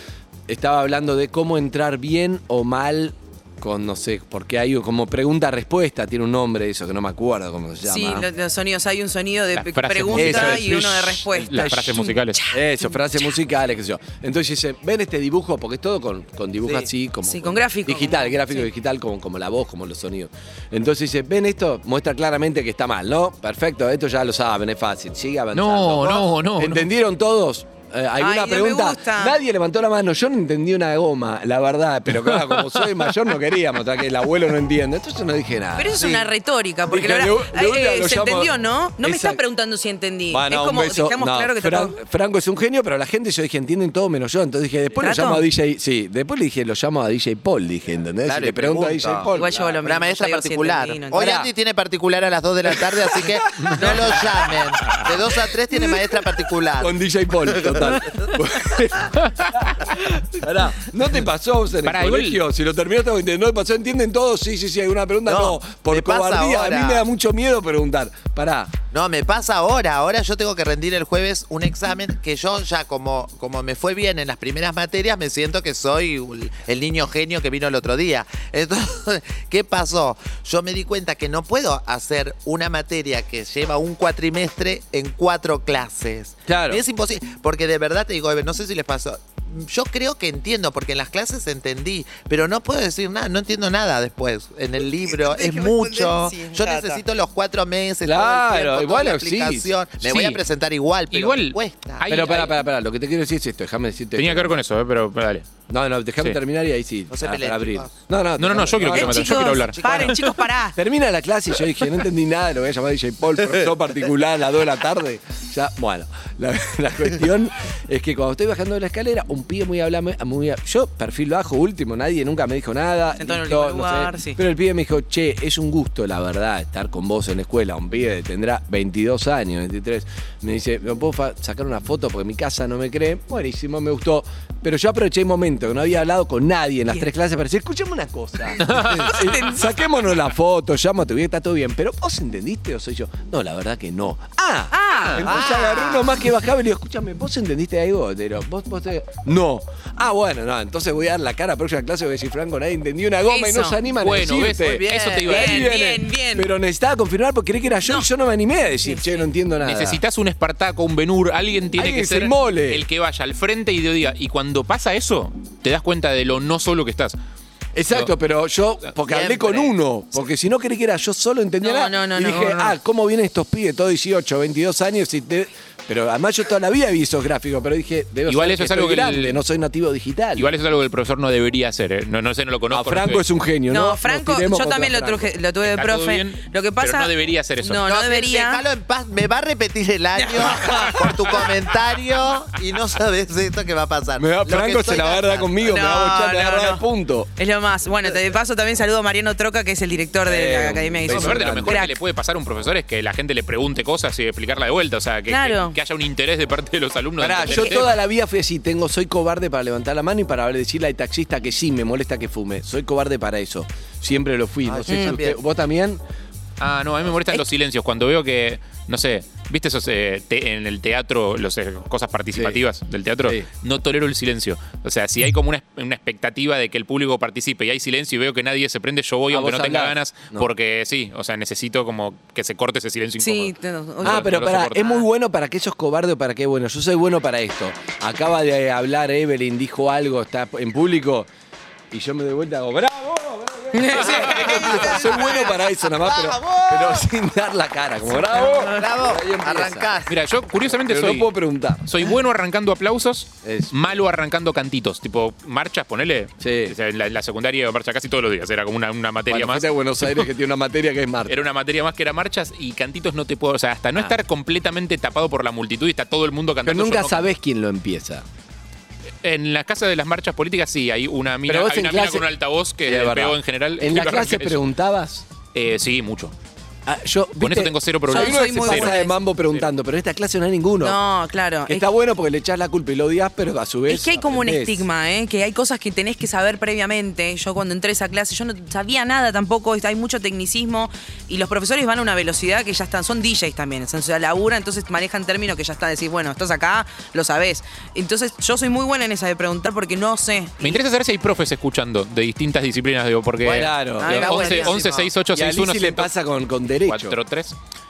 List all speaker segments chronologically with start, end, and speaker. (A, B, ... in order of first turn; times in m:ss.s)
0:00.5-0:08.3 A
0:07.8-0:13.3 B
0:09.5-0:12.4 C
0:10.1-0:11.7 A
0:12.5-0:36.0 A
0:17.2-0:18.7 B
0:25.5-0:26.9 C
0:28.2-0:29.4 B
0:32.1-0:33.1 C
0:35.7-0:42.0 B
0:36.0-0:36.3 D
0:36.9-0:39.4 A
0:40.3-0:49.7 A
0:45.0-0:45.4 B
0:48.2-0:56.9 D
0:49.3-0:51.4 B
0:51.1-0:51.5 A
0:53.6-0:54.2 C
0:53.6-0:54.8 A
0:56.8-1:08.7 A
0:57.4-0:58.1 D
1:01.8-1:02.4 C
1:05.3-1:07.0 D
1:08.9-1:42.1 D
1:26.5-1:26.8 A
1:34.9-1:37.0 B
1:38.0-1:39.7 A
1:40.0-1:40.4 C
1:41.1-1:42.6 C
1:42.1-1:44.6 A
1:44.2-1:45.5 C
1:45.7-1:49.4 A
1:47.1-1:47.9 D
1:48.4-1:50.2 C
1:48.9-1:50.8 B
1:49.1-1:50.2 D
1:50.8-2:40.0 A
2:03.2-2:04.4 B
2:18.7-2:19.1 C
2:18.7-2:19.8 B
2:24.7-2:25.3 B
2:25.2-2:26.2 D
2:33.2-2:33.8 B
2:34.0-2:35.7 C
2:34.6-2:35.5 D
2:35.3-2:36.5 B
2:38.8-2:39.2 B
2:39.6-2:47.2 C
2:41.8-2:42.8 A
2:47.7-3:00.5 A
2:49.0-2:49.7 D
2:51.6-2:52.8 B
2:58.3-2:59.4 C
3:00.4-3:03.2 C
3:02.7-3:05.3 A
3:03.7-3:08.6 B
3:05.6-3:07.8 C
3:07.8-3:15.6 D
3:10.1-3:11.1 B
3:10.6-3:11.5 C
3:14.2-3:17.3 A
3:15.6-3:21.9 B
3:20.2-3:21.8 A
3:21.0-3:27.9 C
3:25.3-3:25.8 B
3:27.2-3:36.0 A
3:34.6-3:35.4 D
3:34.9-3:35.2 B
3:36.6-3:55.0 C
3:42.3-3:42.6 A
3:49.3-3:50.5 A
3:53.2-3:54.3 B
3:54.0-4:01.3 A
4:01.9-4:09.9 A
4:03.7-4:05.4 B
4:04.2-4:04.7 C
4:04.6-4:07.0 D
4:08.3-4:08.8 B
4:08.6-4:10.2 D
4:10.1-4:11.3 C
4:10.7-4:12.0 A
4:11.8-4:20.2 C
4:13.4-4:13.8 A
4:16.4-4:16.8 A
4:19.3-4:21.4 A
4:21.3-4:27.3 C
4:26.6-4:28.2 A
4:29.2-4:34.6 C
4:31.5-4:32.3 A
4:32.8-4:35.2 A
4:35.5-4:36.3 C
4:36.8-4:41.0 A
4:37.4-4:38.9 C
4:38.1-4:39.1 B
4:40.8-4:41.8 B
4:41.7-4:44.9 A
4:43.9-5:00.8 B
5:00.6-5:06.1 C
5:03.4-5:04.4 A
5:03.5-5:05.1 D
5:04.0-5:04.8 B
5:05.3-5:07.2 A
5:06.8-5:07.6 C